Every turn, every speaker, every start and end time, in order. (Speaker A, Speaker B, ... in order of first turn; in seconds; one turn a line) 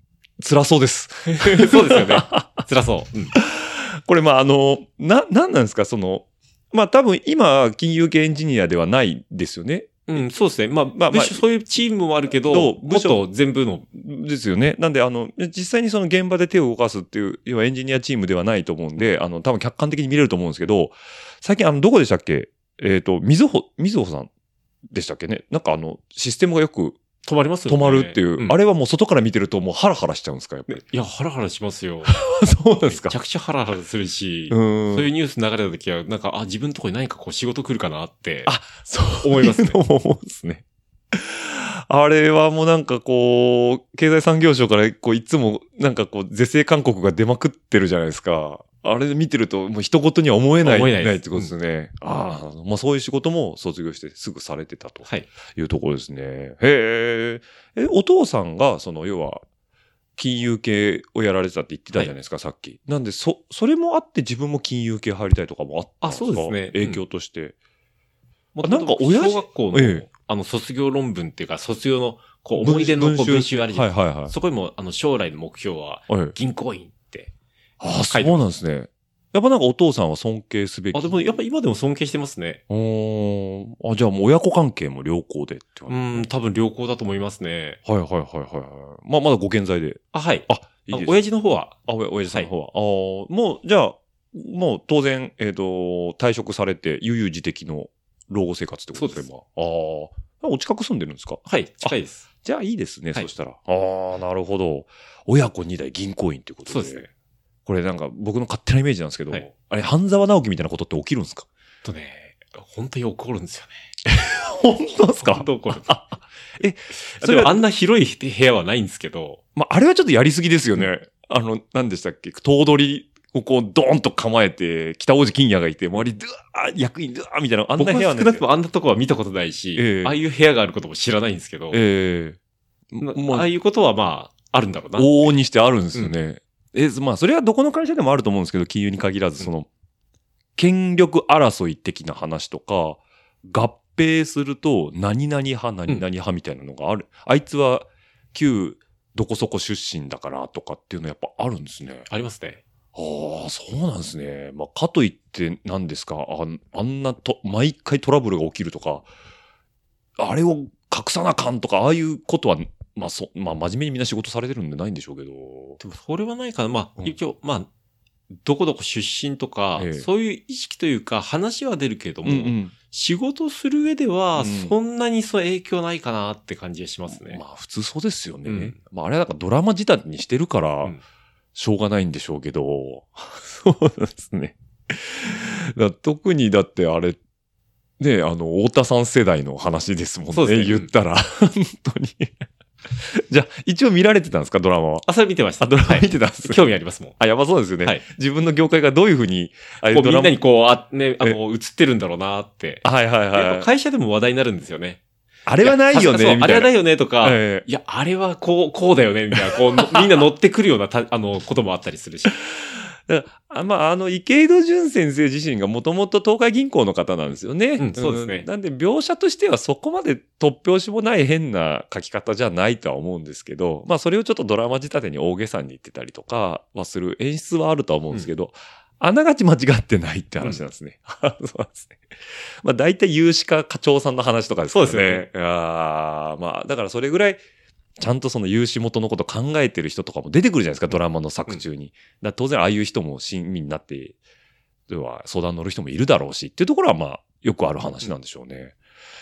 Speaker A: 0.4-2.6
Speaker B: 1.3-3.4
Speaker A: 3.4-10.2
Speaker B: 10.1-13.9
Speaker A: 10.9-11.4
Speaker A: 12.4-13.2
Speaker A: 13.9-24.3
Speaker A: 24.9-27.0
Speaker B: 27.2-28.6
Speaker A: 27.7-30.8
Speaker B: 30.7-32.3
Speaker A: 32.1-33.2
Speaker B: 32.9-38.5
Speaker A: 34.5-35.1
Speaker A: 38.5-59.4
Speaker B: 39.2-39.8
Speaker B: 50.6-51.5
Speaker A: 60.2-67.6
Speaker B: 66.0-67.0
Speaker B: 68.5-77.3
Speaker A: 68.6-70.1
Speaker A: 72.6-74.3
Speaker A: 76.1-76.4
Speaker A: 77.8-81.2
Speaker B: 78.1-78.4
Speaker B: 80.9-82.6
Speaker A: 82.7-86.3
Speaker B: 85.9-87.8
Speaker A: 87.8-91.2
Speaker B: 90.1-91.8
Speaker A: 91.8-107.1
Speaker B: 99.0-99.3
Speaker B: 101.5-102.3
Speaker B: 106.7-107.1
Speaker A: 107.7-111.5
Speaker B: 111.8-113.9
Speaker A: 114.1-117.6
Speaker B: 115.2-115.9
Speaker B: 117.0-119.4
Speaker A: 119.6-128.4
Speaker B: 127.8-131.8
Speaker A: 129.8-130.2
Speaker A: 131.7-132.4
Speaker A: 132.9-133.5
Speaker B: 133.0-135.3
Speaker A: 135.0-139.7
Speaker A: 140.6-152.1
Speaker B: 152.1-152.6
Speaker A: 152.9-159.1
Speaker A: 160.2-165.8
Speaker B: 165.8-167.7
Speaker B: 168.4-177.4
Speaker A: 169.8-170.1
Speaker A: 172.2-172.7
Speaker A: 174.4-174.8
Speaker A: 177.1-181.0
Speaker B: 178.4-178.8
Speaker A: 181.6-187.2
Speaker A: 188.0-195.1
Speaker B: 190.3-190.9
Speaker B: 195.1-197.2
Speaker A: 195.6-196.6
Speaker A: 197.2-200.4
Speaker B: 199.9-205.0
Speaker A: 202.8-203.7
Speaker A: 205.5-207.7
Speaker B: 205.6-212.4
Speaker A: 209.3-210.1
Speaker A: 212.5-237.4
Speaker B: 217.8-218.5
Speaker B: 234.7-235.3
Speaker A: 238.0-244.2
Speaker A: 244.9-248.8